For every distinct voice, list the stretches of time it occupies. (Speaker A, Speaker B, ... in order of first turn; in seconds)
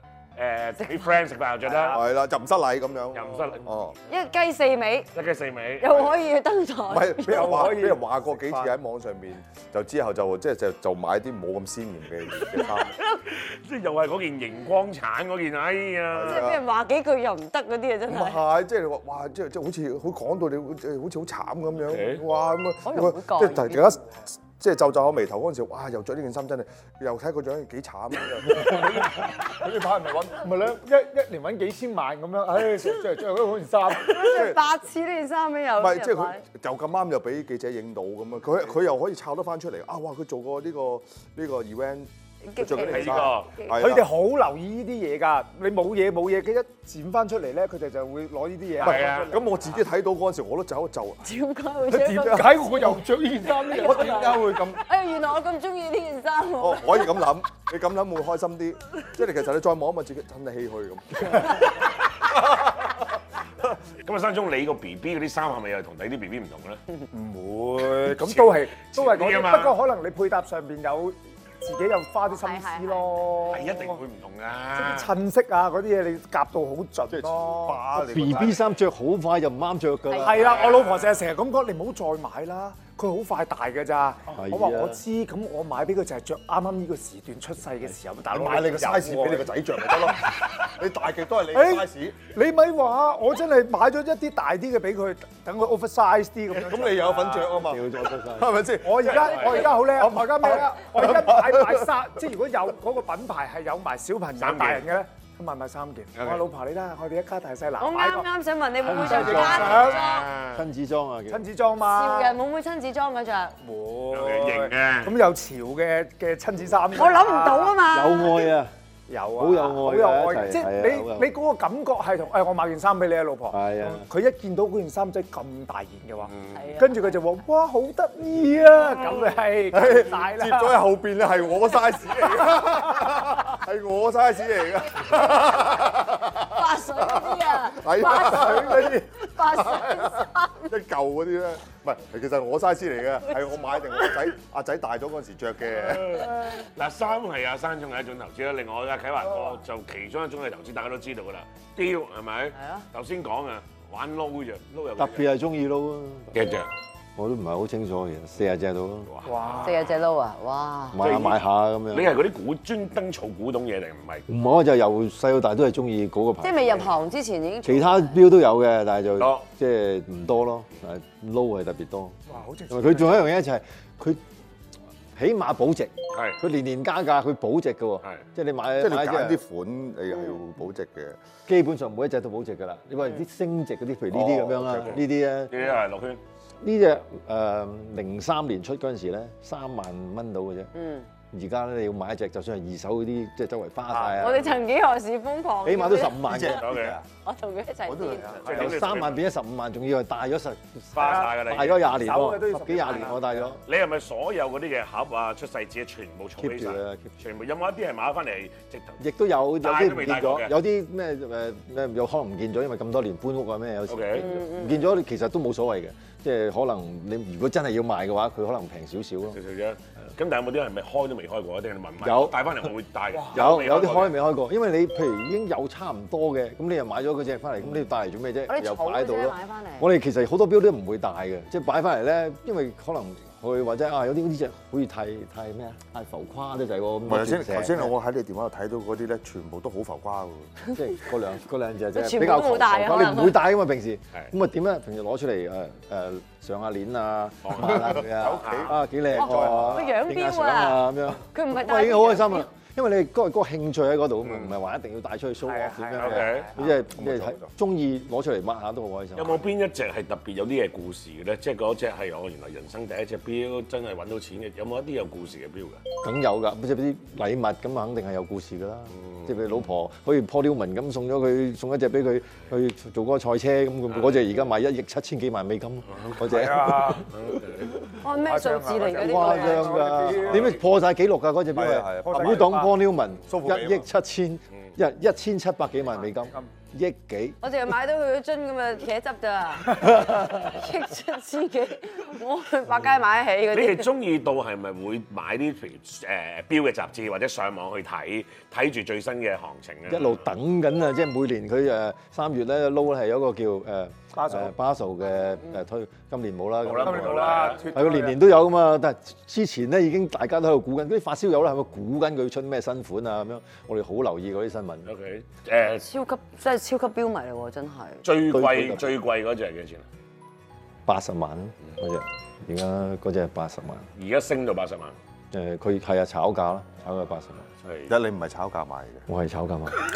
Speaker A: 0.4-2.0, 3.1-3.7, 5.2-6.1, 12.6-16.5, 21.9-22.2, 42.8-43.5, 48.8-49.3, 64.0-66.8, 68.1-69.8, 73.5-75.1, 80.4-81.2, 99.1-99.7, 104.4-104.9, 106.2-106.5, 109.3-110.6, 114.1-115.2, 126.3-126.7, 145.7-155.3, 156.3-156.7, 159.1-159.9, 161.0-164.3, 169.2-169.4, 176.1-176.4, 184.8-186.2, 196.5-197.0, 198.4-199.2, 200.9-202.1, 203.7-209.0, 209.6-210.5, 213.9-214.3, 219.3-224.2, 247.4-248.8, 254.2-254.5, 256.0-256.5, 259.2-265.8, 268.9-269.7, 273.9-274.4, 275.9-277.8, 293.5-300.2, 306.6-307.6, 314.9-315.9, 318.0-319.9, 324.0-325.0, 327.6-327.9
Speaker B: 1.6-2.0, 7.2-8.7, 30.4-34.5, 43.7-49.8, 51.9-54.4, 67.1-74.0, 74.8-78.4, 80.2-89.5, 91.5-97.6, 98.8-108.3, 109.0-110.2, 111.3-112.4, 113.6-117.8, 119.1-130.8, 159.2-159.8, 172.3-173.3, 193.9-194.3, 198.1-198.5, 201.0-203.5, 255.4-256.7, 276.3-277.1, 278.1-280.6, 282.0-282.7, 286.3-286.5, 304.1-304.5, 306.8-308.2
Speaker C: 1.9-4.0, 6.9-12.9, 16.1-16.6, 18.1-30.7, 34.3-34.6, 35.8-44.1, 48.8-51.3, 52.1-53.0, 53.7-54.8, 56.6-62.5, 77.1-78.7, 88.3-92.3, 96.5-101.9, 129.7-146.5, 178.8-181.2, 184.1-185.0, 196.3-197.0, 197.9-198.8, 237.1-240.6, 247.6-249.9, 256.6-257.5, 281.5-282.6, 283.3-283.9, 327.9-329.1
Speaker D: 4.1-5.1, 5.8-7.8, 16.3-18.4, 22.8-23.9, 34.0-36.4, 42.4-43.7, 51.2-52.7, 53.6-57.2, 72.3-73.5, 80.1-80.6, 107.8-110.3, 111.9-113.6, 116.9-118.5, 126.5-127.1, 136.4-140.7, 152.6-152.8, 159.6-161.0, 166.4-168.2, 190.7-191.1, 194.2-198.5, 214.2-214.9, 228.5-229.9, 241.9-243.4, 249.1-252.5, 278.0-279.8, 287.4-293.9, 315.8-318.1
Speaker E: 78.0-80.5, 84.3-85.0, 97.6-98.6, 108.8-110.0, 110.5-111.5, 117.9-118.7, 119.4-121.3, 123.5-124.1, 155.0-156.4, 157.2-159.1, 160.9-162.1, 164.3-166.9, 167.7-172.2, 172.7-174.2, 175.2-179.4, 181.5-185.5, 186.6-190.7, 191.3-194.6, 195.6-196.8, 198.5-203.6, 206.4-207.1, 209.0-219.4, 222.0-222.7, 223.3-237.9, 240.7-259.5, 266.0-278.0, 278.9-287.4, 289.8-290.6, 299.9-314.9, 318.2-318.9, 320.9-323.9, 325.3-327.5, 329.1-329.8